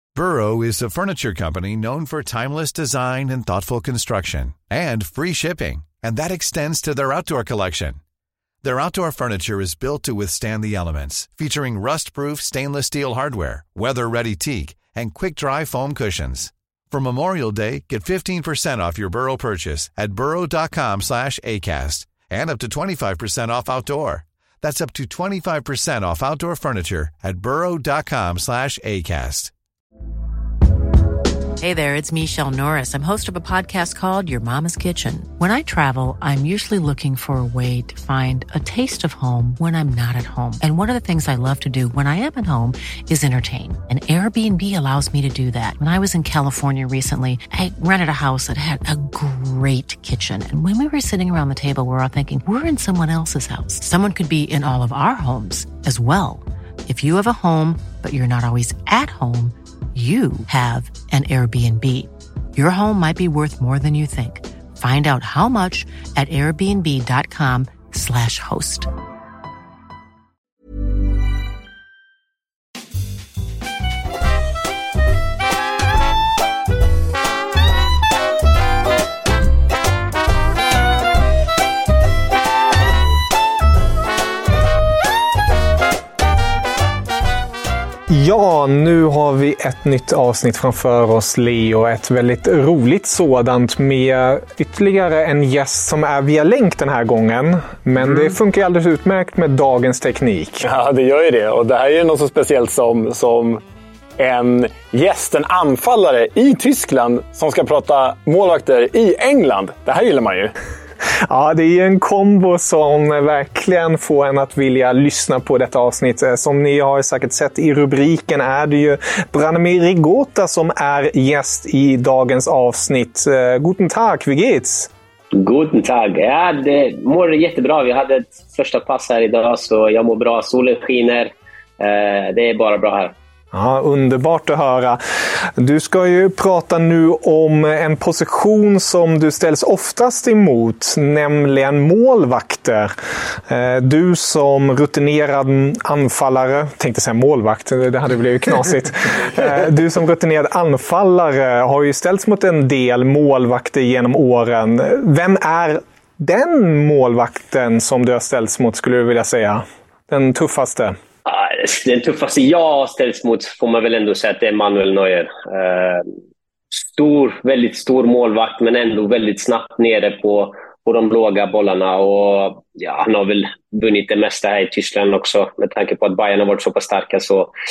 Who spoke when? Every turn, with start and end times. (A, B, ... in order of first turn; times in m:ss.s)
0:00.1-0:08.0 A
0:08.6-0:29.5 A
0:31.6-1:08.9 B
1:28.1-1:40.6 C
1:40.6-1:43.6 D
1:44.2-1:50.5 D
1:51.2-2:04.9 C
2:05.3-2:13.1 E
2:13.5-2:41.0 C
2:41.2-2:46.0 E
2:46.8-2:57.5 E